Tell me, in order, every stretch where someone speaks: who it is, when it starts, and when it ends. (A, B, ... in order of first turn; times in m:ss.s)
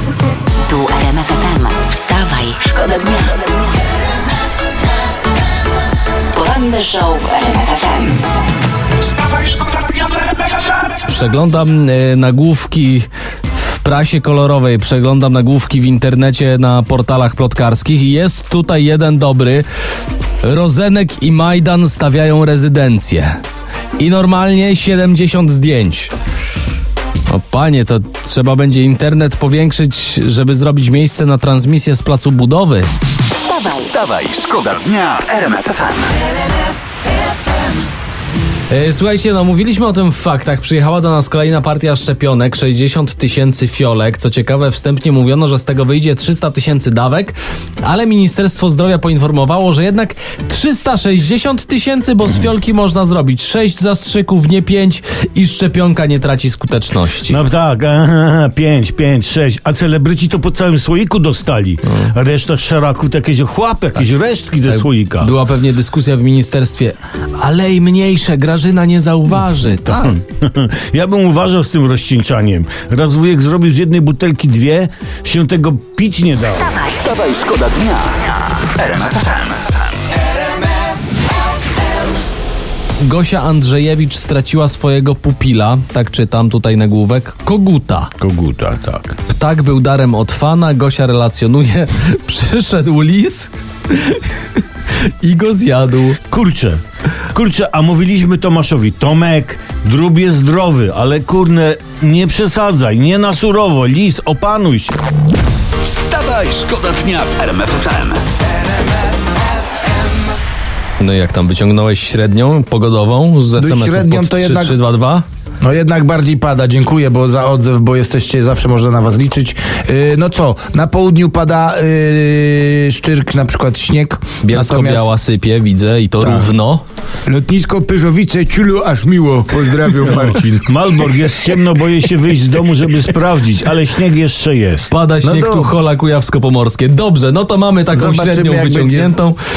0:00.6-0:03.7 A
0:06.3-0:08.2 A
0:10.9-0:19.7 B
0:20.4-0:23.4 B
0:24.0-0:26.1 B
0:27.3-0:32.9 B
0:33.4-0:33.9 A
0:33.8-0:36.1 C
0:38.7-0:57.4 B
0:57.3-1:05.3 D
1:04.7-1:10.1 B
1:09.8-1:16.8 D
1:17.0-1:19.8 C
1:23.0-1:28.1 B
1:28.2-1:29.2 D
1:29.2-1:36.2 B
1:36.3-1:36.8 D
1:37.3-1:45.0 D
1:45.8-1:48.2 C
1:51.0-1:55.2 B
1:53.6-1:54.8 E
1:55.6-2:05.1 E
2:04.4-2:06.8 B
2:06.2-2:06.5 E
2:07.2-2:10.8 E
2:10.0-2:14.9 D
2:14.9-2:19.4 B
2:15.2-2:15.8 E
2:17.9-2:19.2 E